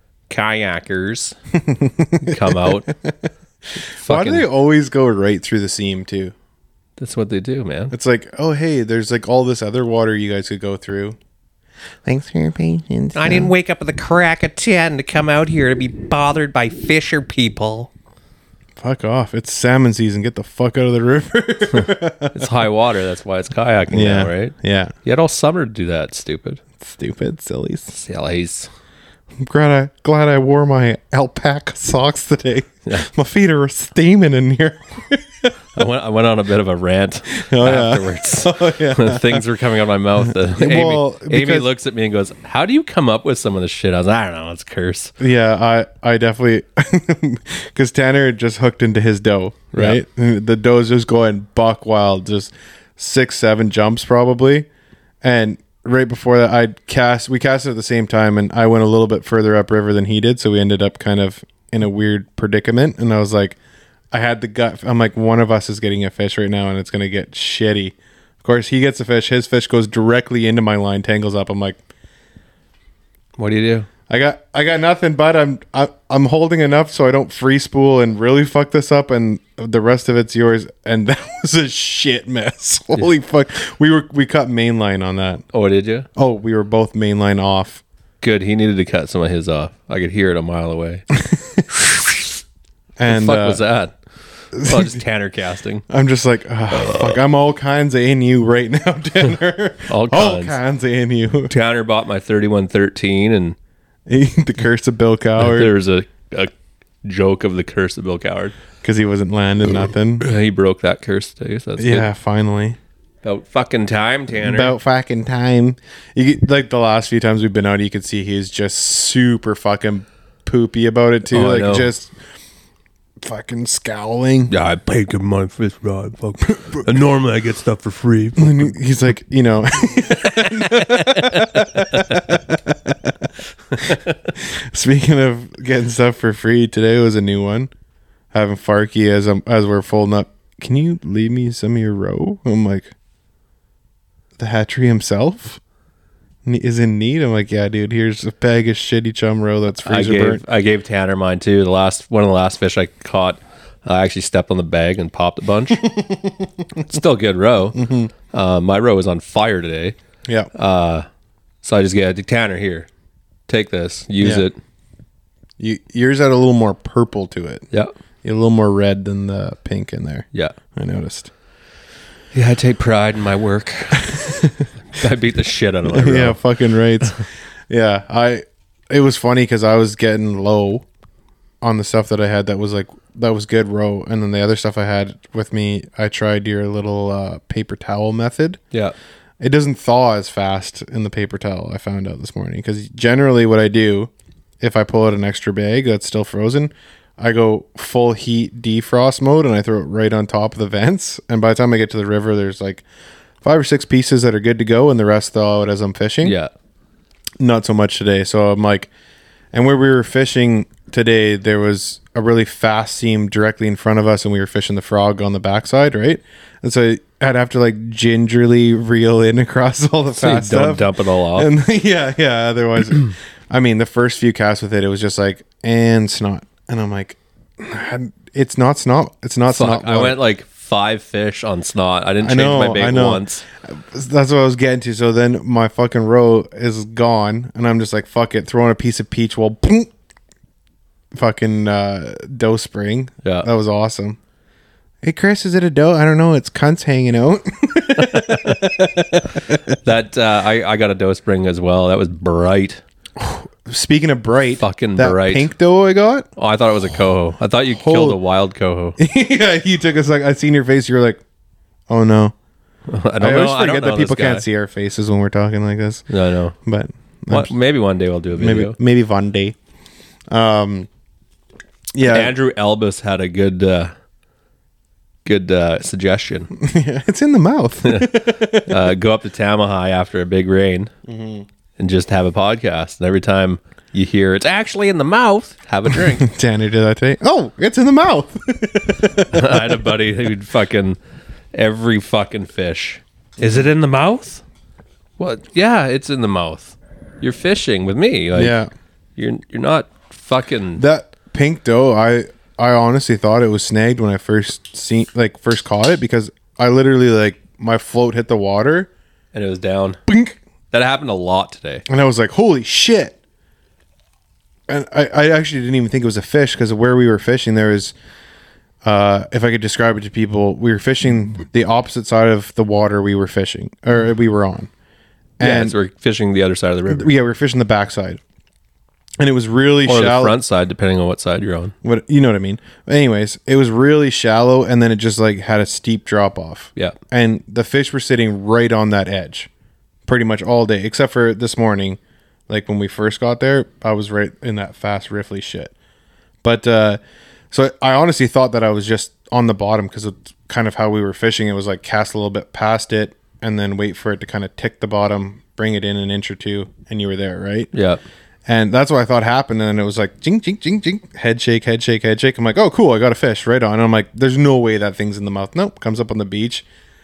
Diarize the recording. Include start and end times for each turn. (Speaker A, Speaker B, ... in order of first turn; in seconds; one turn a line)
Speaker A: 0.3-1.4
Speaker B: 1.6-3.1
Speaker A: 2.3-2.9
Speaker B: 3.9-6.3
Speaker A: 3.9-4.5
Speaker A: 7.0-7.9
Speaker B: 7.9-11.2
Speaker B: 12.1-13.5
Speaker C: 13.1-17.9
Speaker B: 18.8-22.5
Speaker A: 22.3-26.6
Speaker B: 23.9-24.9
Speaker B: 26.8-28.0
Speaker A: 27.9-28.7
Speaker B: 29.4-35.5
Speaker A: 35.7-45.1
Speaker B: 37.4-39.5
Speaker B: 40.3-41.7
Speaker B: 45.2-54.7
Speaker A: 49.7-50.0
Speaker B: 55.2-63.6
Speaker B: 64.1-71.8
Speaker A: 73.4-73.9
Speaker B: 74.1-85.4
Speaker A: 85.5-86.1
Speaker B: 86.2-87.8
Speaker A: 88.2-91.0
Speaker B: 91.2-91.6
Speaker A: 91.7-92.1
Speaker B: 93.0-93.6
Speaker A: 93.1-93.9
Speaker B: 94.5-95.0
Speaker A: 94.6-95.8
Speaker B: 95.9-101.5
Speaker A: 96.7-97.2
Speaker A: 99.9-100.6
Speaker A: 101.5-103.5
Speaker B: 104.1-105.7
Speaker A: 105.4-108.5
Speaker B: 108.8-110.3
Speaker A: 110.2-112.1
Speaker B: 111.8-112.8
Speaker A: 113.2-114.7
Speaker B: 114.4-122.1
Speaker A: 121.3-121.9
Speaker B: 123.2-124.5
Speaker A: 124.5-128.7
Speaker B: 126.6-126.8
Speaker B: 128.4-137.7
Speaker A: 130.3-132.2
Speaker B: 138.3-142.9
Speaker B: 144.4-145.6
Speaker B: 146.4-150.4
Speaker A: 149.8-155.8
Speaker B: 155.8-156.4
Speaker A: 156.8-157.8
Speaker B: 157.7-158.1
Speaker A: 158.3-159.9
Speaker A: 160.5-161.1
Speaker A: 161.6-162.9
Speaker A: 163.5-164.6
Speaker B: 164.2-164.4
Speaker B: 165.6-167.7
Speaker B: 168.2-171.3
Speaker A: 172.3-174.1
Speaker B: 174.1-174.7
Speaker A: 174.9-176.4
Speaker B: 175.9-180.8
Speaker B: 181.6-188.6
Speaker B: 189.4-202.8
Speaker B: 203.4-206.3
Speaker A: 206.2-206.5
Speaker B: 207.4-208.9
Speaker B: 209.5-230.2
Speaker A: 220.2-221.5
Speaker A: 229.5-233.4
Speaker B: 232.2-239.9
Speaker B: 241.1-244.2
Speaker A: 243.2-243.5
Speaker B: 245.0-249.8
Speaker A: 247.9-248.6
Speaker A: 249.8-252.8
Speaker B: 253.2-256.3
Speaker A: 254.6-255.5
Speaker A: 256.4-258.9
Speaker B: 257.7-258.2
Speaker B: 259.0-261.2
Speaker B: 261.9-262.3
Speaker A: 262.9-264.4
Speaker B: 263.2-266.1
Speaker A: 266.1-266.5
Speaker B: 266.6-267.5
Speaker A: 267.3-268.8
Speaker B: 268.4-269.6
Speaker B: 270.3-270.9
Speaker B: 271.9-272.3
Speaker A: 272.0-273.9
Speaker A: 275.2-276.5
Speaker B: 276.5-278.8
Speaker A: 277.8-278.1
Speaker A: 278.7-280.9
Speaker B: 281.1-281.4
Speaker A: 281.8-286.3
Speaker B: 286.0-289.8
Speaker A: 289.3-291.0
Speaker A: 291.5-294.4
Speaker A: 295.2-298.6
Speaker B: 298.3-298.7
Speaker A: 299.1-300.8
Speaker B: 300.8-308.9
Speaker A: 309.3-310.0
Speaker B: 310.1-310.4
Speaker A: 310.7-311.8
Speaker B: 311.9-313.2
Speaker B: 314.7-317.9
Speaker B: 318.8-324.7
Speaker B: 325.4-325.8
Speaker A: 325.4-327.1
Speaker B: 326.9-328.2
Speaker B: 329.2-330.4
Speaker A: 329.9-331.7
Speaker B: 331.8-339.5
Speaker B: 340.1-345.7
Speaker B: 346.4-347.0
Speaker B: 347.5-357.7
Speaker A: 357.7-358.0
Speaker B: 358.4-366.6